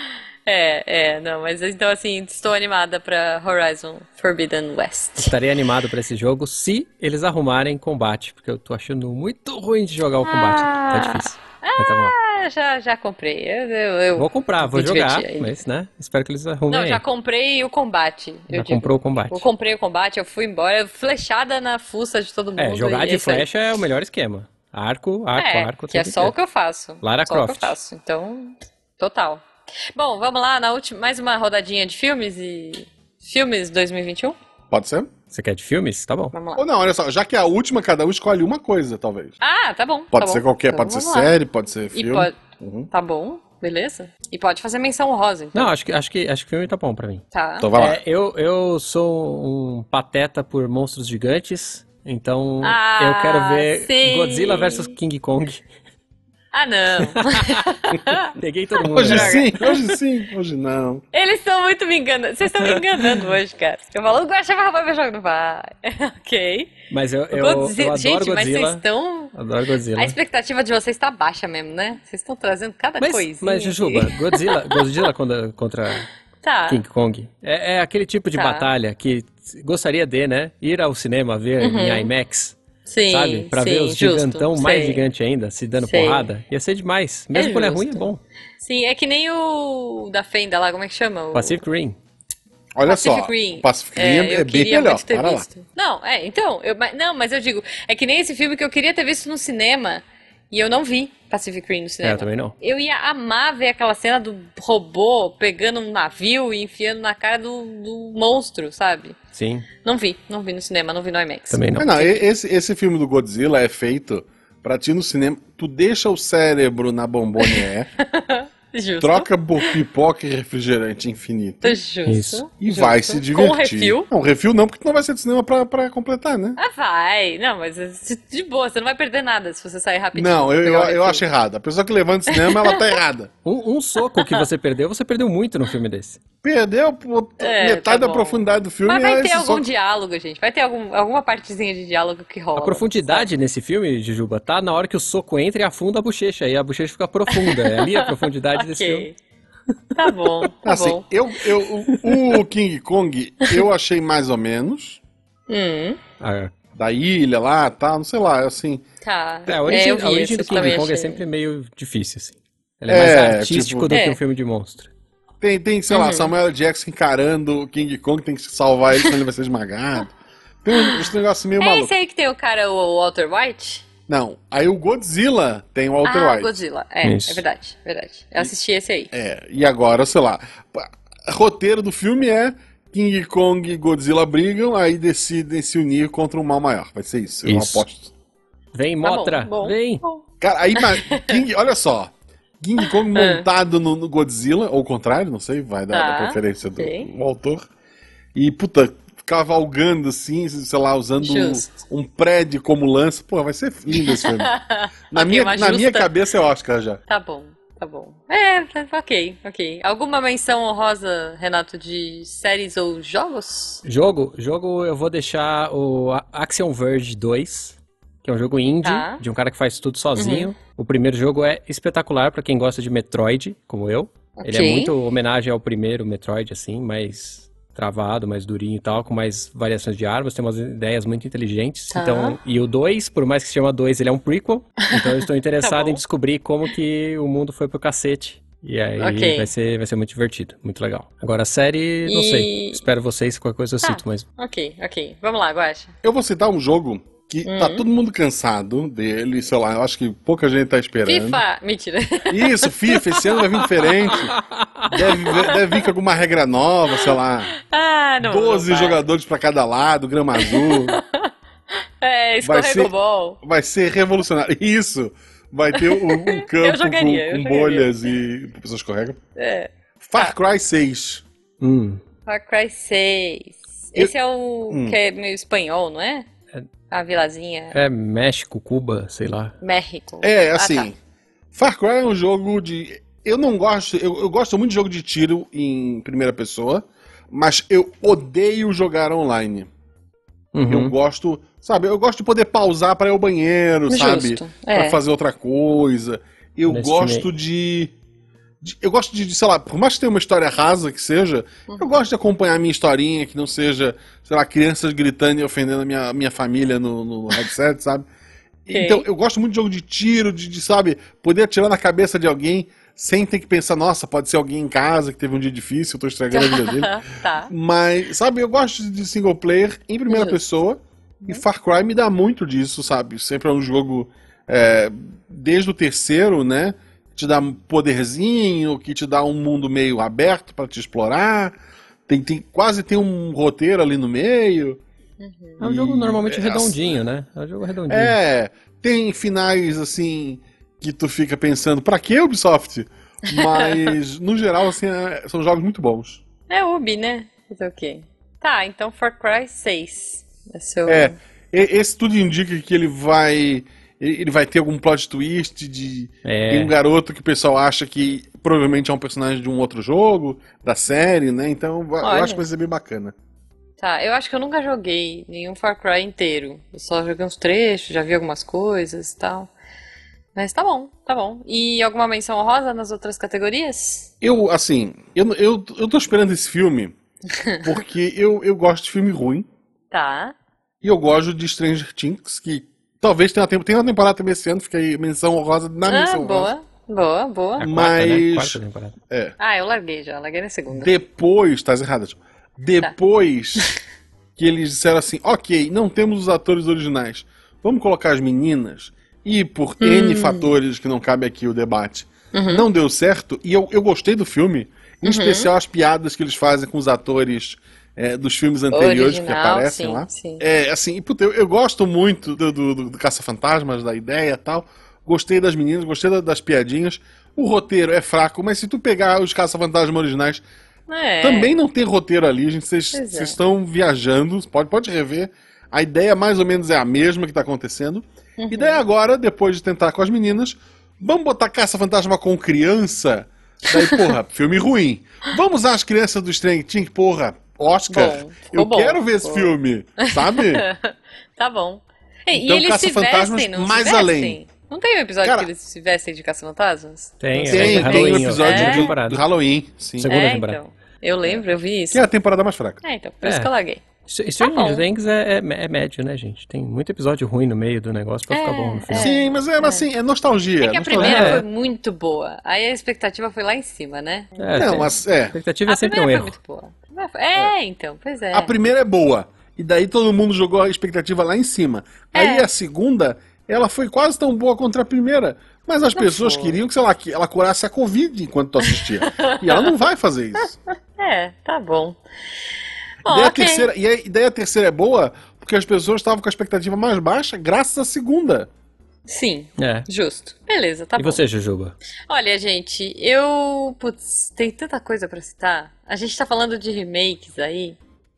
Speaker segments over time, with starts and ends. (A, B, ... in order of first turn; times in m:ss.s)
0:00.5-0:05.3 A
0:05.2-0:12.2 B
0:10.3-0:15.6 A
0:14.2-0:17.0 B
0:16.7-0:23.5 A
0:18.5-0:19.4 B
0:22.6-0:26.4 B
0:25.4-0:34.4 A
0:27.0-0:27.8 B
0:34.7-0:35.1 C
0:35.3-0:36.3 B
0:36.3-0:36.6 A
0:36.6-0:39.4 C
0:39.4-0:41.3 A
0:40.1-0:42.9 C
0:41.9-0:42.4 A
0:42.9-0:45.7 A
0:45.6-0:47.2 B
0:47.3-0:47.7 A
0:47.6-0:48.0 C
0:47.8-0:55.6 B
0:52.6-0:54.9 A
0:56.5-0:59.8 A
0:57.2-0:57.6 B
0:58.3-0:59.5 B
0:58.9-1:01.0 C
1:01.1-1:06.8 A
1:06.9-1:08.8 B
1:07.3-1:09.4 A
1:09.3-1:10.2 B
1:10.0-1:15.0 A
1:13.0-1:16.1 B
1:16.4-1:16.8 A
1:16.7-1:22.6 B
1:18.3-1:18.7 A
1:21.6-1:22.1 A
1:22.9-1:25.0 A
1:23.1-1:28.2 B
1:25.8-1:26.3 A
1:27.3-1:28.1 A
1:28.6-1:31.6 A
1:31.3-1:32.0 B
1:32.8-1:35.5 C
1:32.9-1:49.2 A
1:42.0-1:42.5 B
1:49.3-1:49.7 B
1:49.8-1:52.2 A
1:51.5-1:51.9 B
1:51.8-1:57.9 C
1:57.4-1:59.8 A
1:59.0-2:01.8 C
2:01.6-2:04.1 A
2:02.1-2:02.4 B
2:02.6-2:06.6 C
2:06.6-2:11.2 A
2:10.2-2:13.3 C
2:12.3-2:12.9 A
2:13.4-2:16.2 B
2:14.1-2:14.4 A
2:16.4-2:19.7 C
2:17.4-2:23.3 A
2:22.6-2:29.1 B
2:27.3-2:29.1 A
2:30.0-2:31.0 A
2:30.6-2:35.0 C
2:35.5-2:36.0 A
2:36.2-2:36.5 B
2:36.8-2:38.8 C
2:39.0-2:41.2 A
2:39.5-2:44.9 B
2:42.9-2:43.9 C
2:43.9-2:44.2 A
2:45.4-2:51.9 C
2:45.9-2:46.3 A
2:50.8-2:51.0 A
2:51.6-2:53.8 A
2:54.1-2:56.5 C
2:56.0-2:59.1 A
2:57.0-2:57.4 B
2:59.1-3:08.1 C
3:07.4-3:07.8 B
3:08.7-3:10.0 B
3:09.0-3:10.2 A
3:10.4-3:17.7 C
3:10.8-3:11.4 A
3:13.1-3:13.5 A
3:15.9-3:17.1 A
3:18.4-3:24.6 C
3:21.2-3:21.7 A
3:23.9-3:26.1 A
3:25.1-3:27.0 C
3:27.1-3:33.8 A
3:33.8-4:04.3 B
3:38.8-3:39.2 A
3:40.2-3:40.5 A
3:44.4-3:44.9 A
3:51.9-3:52.4 A
3:54.8-3:56.0 A
3:59.0-3:59.5 A
4:02.1-4:02.8 A
4:03.8-4:05.9 A
4:06.0-4:11.4 C
4:07.4-4:07.8 A
4:11.0-4:13.2 A
4:12.3-4:14.4 C
4:14.2-4:14.9 B
4:14.9-4:17.5 C
4:15.2-4:15.6 A
4:17.0-4:19.0 A
4:18.2-4:21.0 C
4:20.4-4:21.3 A
4:22.0-4:23.4 A
4:22.4-4:29.2 C
4:25.7-4:28.1 A
4:29.4-4:30.4 A
4:30.0-4:31.2 C
4:31.6-4:32.0 B
4:32.3-4:36.3 A
4:34.7-4:35.0 C
4:36.9-4:37.8 A
4:37.7-4:39.5 B
4:39.6-4:40.9 A
4:40.2-4:41.0 C
4:41.5-4:49.7 C
4:50.5-4:50.9 B
4:50.7-4:57.9 C
4:53.9-4:55.0 A
4:56.7-4:57.3 B
4:58.6-5:08.1 C
5:01.7-5:02.0 A
5:08.7-5:31.6 C
5:08.7-5:09.1 A
5:16.3-5:17.5 A
5:20.1-5:20.4 A
5:32.1-5:34.8 C
5:35.2-5:35.6 A
5:35.6-5:38.2 B
5:35.6-5:36.9 C
5:37.9-5:46.2 C
5:43.3-5:43.9 A
5:46.5-5:51.2 A
5:50.9-6:03.1 C
5:56.2-5:56.7 B
6:02.0-6:02.4 A
6:03.8-6:09.5 A
6:10.4-6:14.1 A
6:14.2-6:17.0 C
6:17.4-6:17.7 A
6:17.6-6:19.5 C
6:19.9-6:20.4 A
6:20.8-6:26.5 C
6:25.9-6:27.7 A
6:27.6-6:29.0 B
6:27.6-6:29.4 C
6:29.4-6:30.9 A
6:30.7-6:33.7 C
6:34.4-7:00.4 C
6:39.8-6:40.5 A
6:42.3-6:42.7 A
6:45.0-6:45.5 A
6:48.7-6:50.4 A
7:00.9-7:01.5 A
7:01.2-7:20.7 C
7:02.9-7:03.4 A
7:08.4-7:08.8 A
7:13.7-7:14.1 A
7:17.9-7:28.9 A
7:22.3-7:24.4 C
7:25.2-7:25.5 C
7:27.2-7:29.2 B
7:27.5-7:30.1 C
7:30.0-7:30.6 B
7:30.1-7:32.0 A
7:31.9-7:32.8 C
7:32.8-7:33.8 A
7:33.2-7:33.5 B
7:34.1-7:39.1 B
7:34.4-7:34.8 A
7:38.3-7:39.9 A
7:38.9-7:41.4 C
7:40.6-7:44.7 A
7:41.0-7:41.4 B
7:44.4-7:46.3 B
7:44.6-7:45.4 C
7:45.7-7:48.5 A
7:48.3-8:00.6 C
7:52.1-7:52.5 A
7:56.0-7:56.6 A
7:58.6-7:59.8 A
8:01.0-8:02.0 A
8:03.0-8:03.7 A
8:03.0-8:08.5 C
8:09.1-8:11.2 A
8:09.6-8:09.9 B
8:11.0-8:11.8 B
8:12.1-8:17.8 A